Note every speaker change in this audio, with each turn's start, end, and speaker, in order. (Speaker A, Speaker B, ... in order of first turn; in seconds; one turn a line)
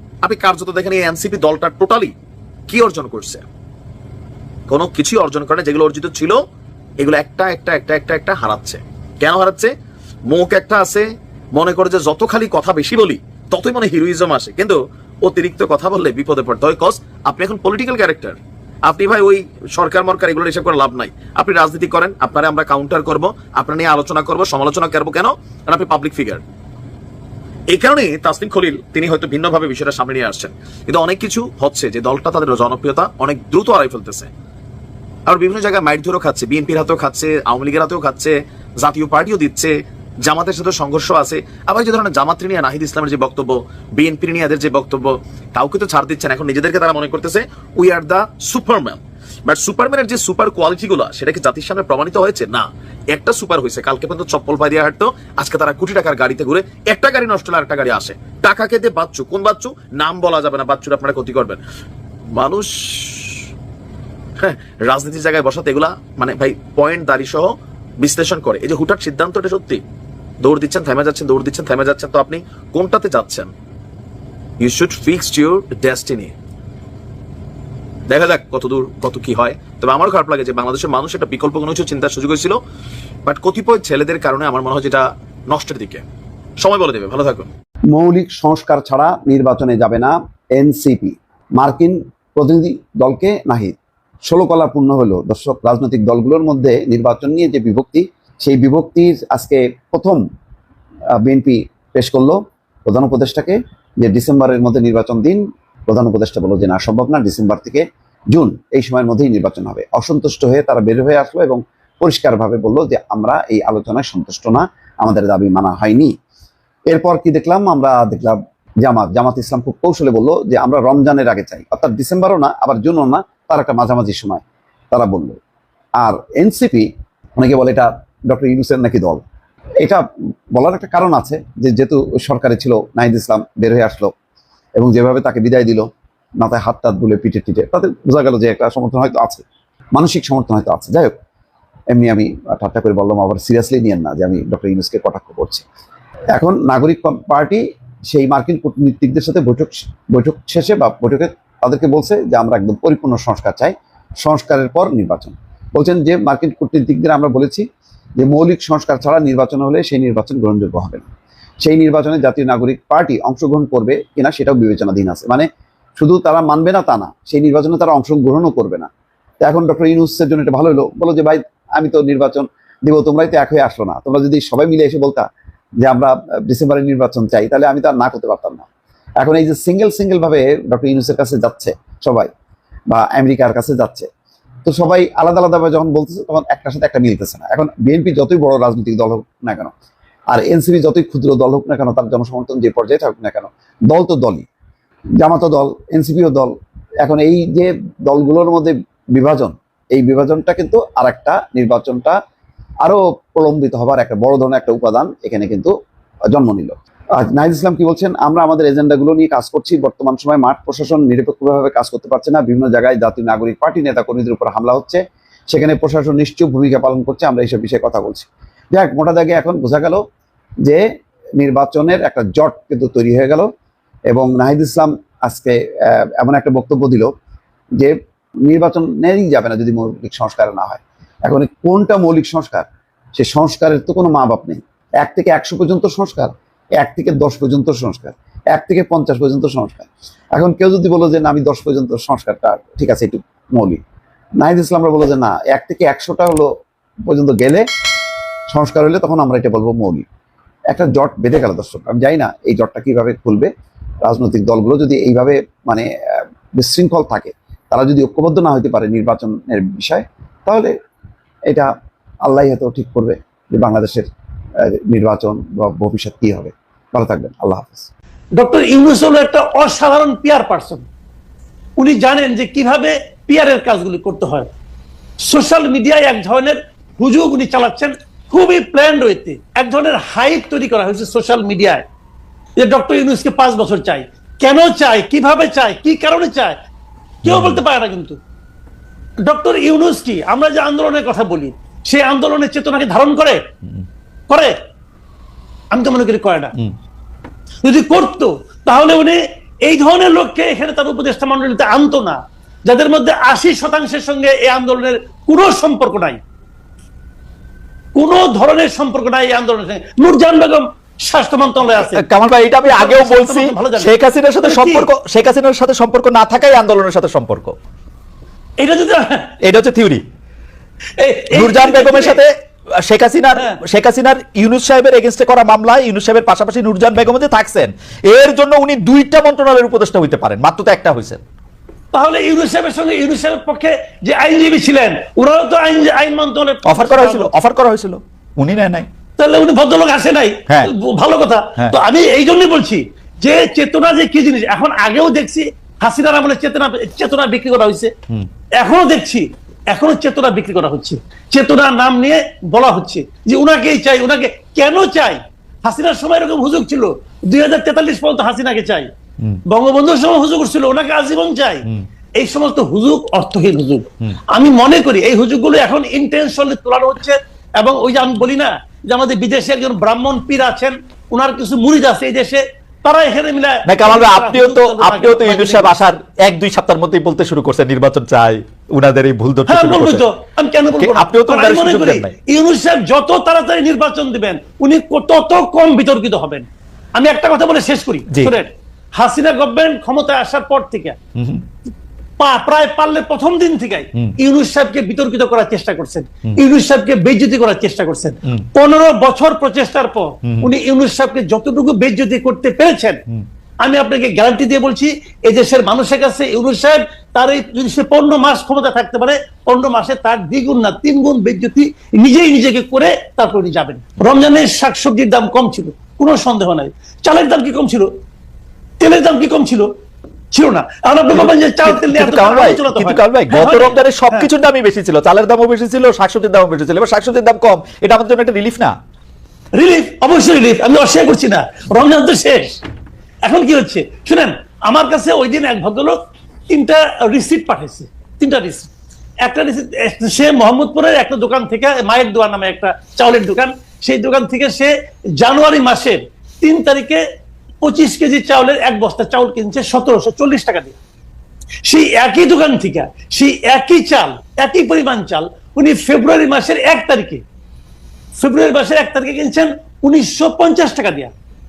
Speaker A: 0.2-2.1
Speaker A: 2.7-3.4
Speaker A: 4.7-6.4
Speaker A: 7.0-9.7
Speaker A: 10.3-26.4
Speaker A: 27.7-34.3
Speaker A: 35.3-61.6
Speaker A: 62.3-63.4
Speaker A: 64.4-69.8
Speaker A: 70.4-73.5
Speaker A: 74.6-76.3
Speaker A: 78.1-82.6
Speaker A: 83.3-86.0
Speaker A: 86.6-87.5
Speaker B: 87.9-100.2
Speaker B: 101.2-116.2
Speaker B: 116.9-125.4
Speaker B: 126.0-129.2
Speaker B: 130.6-134.1
Speaker B: 134.8-135.9
Speaker B: 136.4-141.2
Speaker B: 141.9-145.7
Speaker B: 146.3-157.7
Speaker B: 158.2-161.1
Speaker B: 161.6-168.9
Speaker B: 169.4-175.3
Speaker B: 175.8-178.7
Speaker B: 179.2-182.3
Speaker B: 182.9-184.1
Speaker B: 184.7-189.7
Speaker B: 190.3-194.5
Speaker B: 195.2-202.2
Speaker B: 202.8-205.7
Speaker B: 206.3-220.0
Speaker B: 221.4-223.5
Speaker B: 224.1-227.1
Speaker B: 227.8-243.8
Speaker B: 244.4-246.5
Speaker B: 247.1-247.7
Speaker B: 248.5-250.1
Speaker B: 250.7-253.5
Speaker B: 254.0-260.7
Speaker B: 262.2-264.1
Speaker B: 264.6-267.9
Speaker C: 268.4-270.9
Speaker C: 271.8-274.5
Speaker C: 275.3-281.9
Speaker C: 282.6-286.6
Speaker C: 287.2-288.2
Speaker D: 287.3-287.6
Speaker C: 289.3-293.4
Speaker C: 294.3-294.6
Speaker C: 295.7-296.5
Speaker C: 297.6-306.2
Speaker C: 308.0-312.0
Speaker D: 311.8-317.6
Speaker C: 312.6-314.9
Speaker C: 318.6-319.3
Speaker D: 319.4-320.0
Speaker C: 321.0-322.2
Speaker D: 321.3-331.2
Speaker C: 331.9-337.3
Speaker D: 336.6-338.9
Speaker C: 339.2-347.9
Speaker C: 348.6-358.9
Speaker C: 359.5-361.6
Speaker C: 362.2-375.8
Speaker D: 373.7-380.1
Speaker C: 379.5-391.0
Speaker D: 380.8-382.1
Speaker D: 388.1-388.4
Speaker D: 391.2-391.4
Speaker C: 392.2-403.0
Speaker D: 400.2-400.5
Speaker C: 403.6-417.9
Speaker C: 418.8-419.7
Speaker C: 420.3-424.3
Speaker D: 421.1-428.8
Speaker C: 429.6-432.6
Speaker C: 433.2-436.0
Speaker C: 436.5-438.7
Speaker C: 439.2-447.0
Speaker C: 447.6-450.8
Speaker C: 451.7-457.2
Speaker C: 458.2-461.1